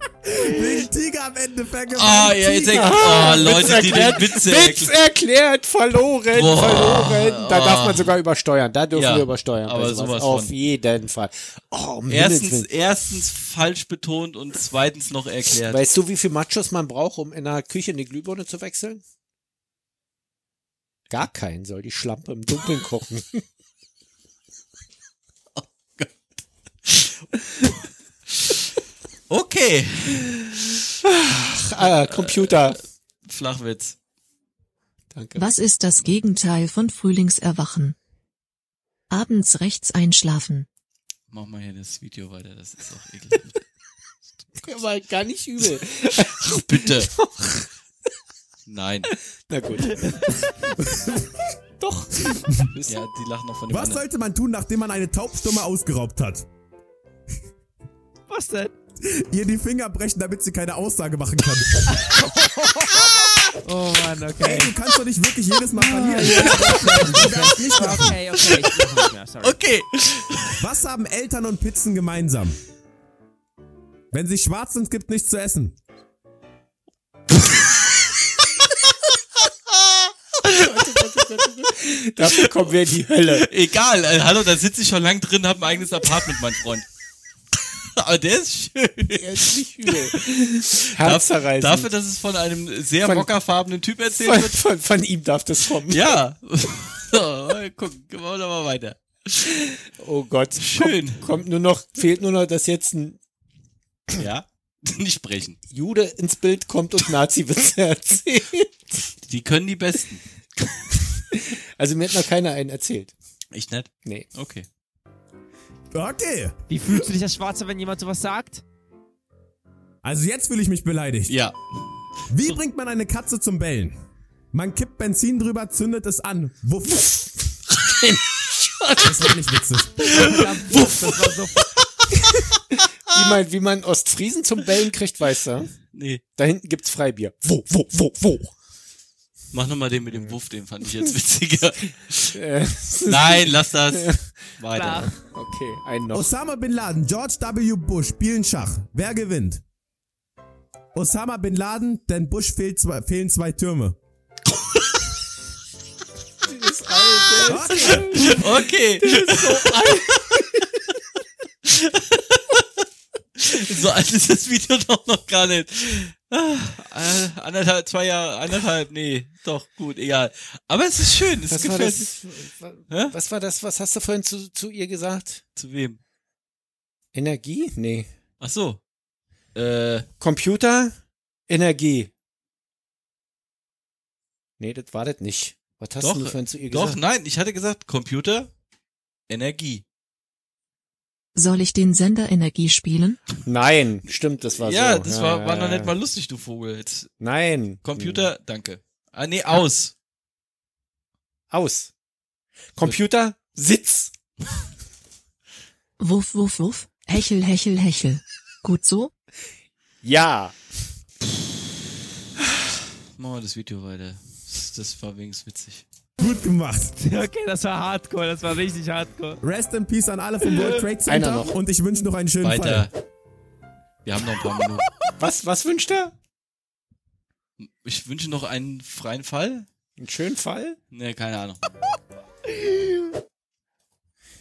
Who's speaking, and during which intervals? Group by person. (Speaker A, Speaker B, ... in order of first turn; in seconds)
Speaker A: 0.2-3.0, 53.7-56.5, 59.0-62.0, 64.4-68.2, 70.6-72.6, 74.1-75.8, 115.9-116.6, 120.0-121.3, 122.3-124.0, 124.5-127.1, 129.0-130.2, 146.1-149.6, 150.9-154.0, 157.4-158.3, 216.2-216.9, 219.4-222.9
Speaker B: 1.9-4.9, 6.3-8.1, 8.9-10.5, 12.1-15.8, 25.6-26.1, 26.8-27.3, 28.3-28.6, 29.3-30.8, 31.5-34.0, 41.3-43.6, 46.1-47.1, 48.7-49.1, 52.9-54.0, 66.3-66.8, 68.3-70.6, 82.2-86.9, 88.0-94.6, 95.9-99.6, 100.6-101.3, 104.2-105.6, 109.2-110.2, 113.5-114.7, 121.3-122.6, 130.0-131.4, 135.9-136.2, 139.5-142.4, 143.0-145.1, 154.5-155.0, 157.2-161.0, 161.6-162.8, 163.4-172.1, 172.9-173.1, 175.6-176.0, 178.4-178.8, 179.5-180.1, 186.0-188.5, 189.3-189.8, 194.4-197.1, 197.8-199.9, 213.2-215.8, 222.4-222.9, 224.0-224.9, 227.6-229.7, 230.9-231.6
Speaker C: 2.7-12.7, 15.7-19.0, 21.1-23.4, 31.1-32.8, 35.1-35.5, 44.6-47.7, 49.5-50.1, 51.8-53.0, 80.4-83.5, 89.1-91.9, 93.0-93.3, 94.1-96.2, 100.0-103.2, 105.7-109.0, 111.3-113.1, 127.1-129.3, 132.2-135.7, 136.4-138.5, 142.3-144.3, 145.1-146.3, 156.4-160.8, 171.5-175.4, 177.1-178.1, 180.2-181.0, 181.5-182.1, 184.6-187.0, 193.4-195.9, 197.2-198.2, 201.5-201.9, 202.7-204.1, 210.0-210.6, 221.1-221.6, 225.2-226.1, 230.0-230.8
Speaker D: 35.4-37.9, 39.1-40.7, 191.3-193.2, 206.0-209.1
Speaker E: 50.0-50.2, 58.3-58.7, 61.9-64.8, 65.7-69.6, 116.7-118.6, 130.1-131.7, 144.7-145.1, 216.9-219.4, 220.4-220.8